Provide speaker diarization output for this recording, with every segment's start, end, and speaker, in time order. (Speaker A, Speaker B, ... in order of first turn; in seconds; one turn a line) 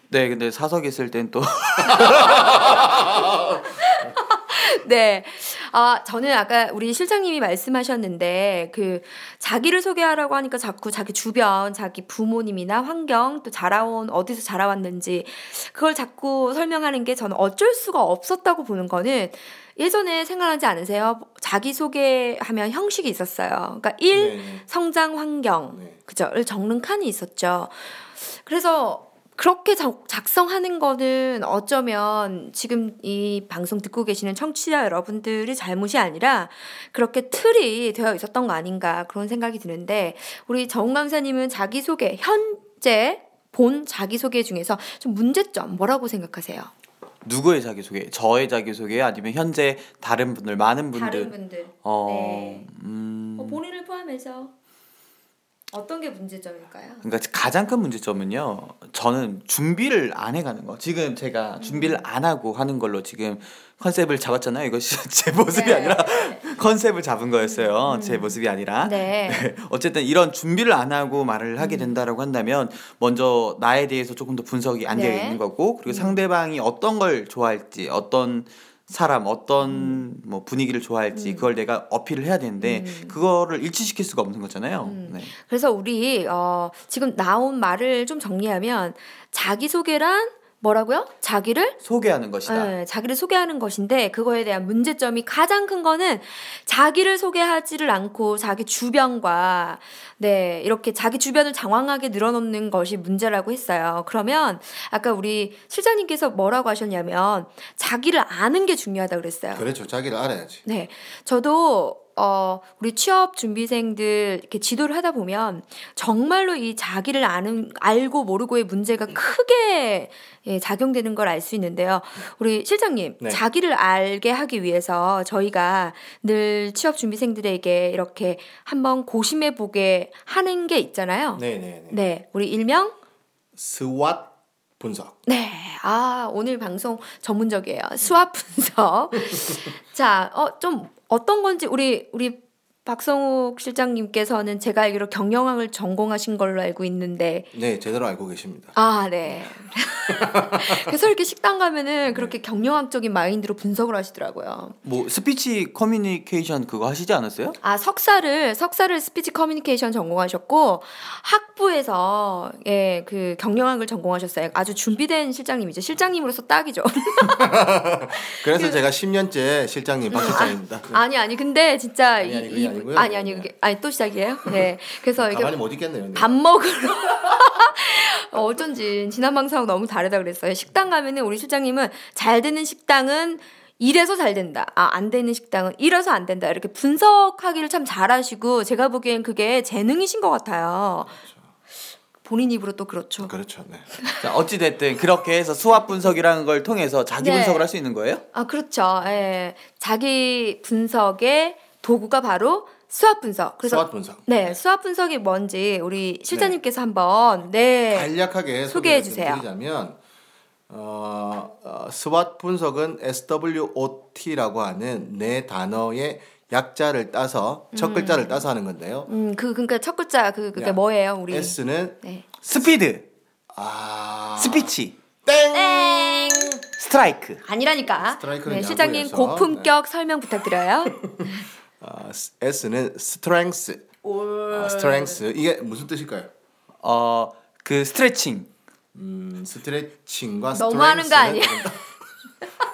Speaker A: 0.1-2.9
Speaker B: 1.9-46.7
Speaker C: 24.1-24.6
Speaker A: 47.2-51.3
Speaker B: 50.9-52.7
Speaker A: 51.8-53.6
Speaker B: 53.4-54.5
Speaker B: 55.7-57.0
Speaker A: 57.0-85.3
Speaker B: 61.6-62.0
Speaker B: 65.5-66.4
Speaker B: 67.4-69.5
Speaker B: 71.6-72.0
Speaker B: 74.9-76.2
Speaker B: 79.6-80.0
Speaker B: 81.1-81.5
Speaker B: 82.6-83.2
Speaker B: 84.8-91.8
Speaker A: 91.8-92.7
Speaker B: 92.5-109.7
Speaker C: 109.5-110.6
Speaker B: 110.7-133.0
Speaker C: 131.4-132.0
Speaker C: 133.6-135.2
Speaker B: 135.3-147.5
Speaker C: 147.5-148.8
Speaker B: 148.8-154.8
Speaker C: 150.1-150.9
Speaker C: 152.1-152.4
Speaker A: 154.8-157.6
Speaker B: 157.6-167.6
Speaker C: 167.3-171.0
Speaker B: 168.1-168.8
Speaker B: 170.1-175.6
Speaker C: 172.2-173.5
Speaker C: 175.2-176.4
Speaker B: 176.1-191.2
Speaker C: 191.2-191.4
Speaker B: 192.2-193.3
Speaker C: 193.2-193.9
Speaker B: 194.0-194.2
Speaker A: 194.2-198.2
Speaker B: 197.2-197.7
Speaker B: 198.3-208.1
Speaker C: 203.6-204.6
Speaker C: 206.3-206.6
Speaker C: 207.9-210.0
Speaker B: 208.7-209.4
Speaker C: 210.7-219.1
Speaker B: 217.7-218.5
Speaker B: 219.1-222.2
Speaker C: 220.6-222.0
Speaker A: 222.4-223.1
Speaker C: 223.5-224.7
Speaker A: 224.4-224.9
Speaker C: 225.2-226.6
Speaker B: 225.5-226.6
Speaker A: 226.6-227.4
Speaker B: 227.4-231.4
Speaker C: 227.9-229.7
Speaker C: 231.0-231.3
Speaker C: 231.8-233.8
Speaker B: 234.0-235.2
Speaker C: 234.5-236.3
Speaker A: 236.8-238.5
Speaker C: 238.9-241.8
Speaker B: 240.5-241.8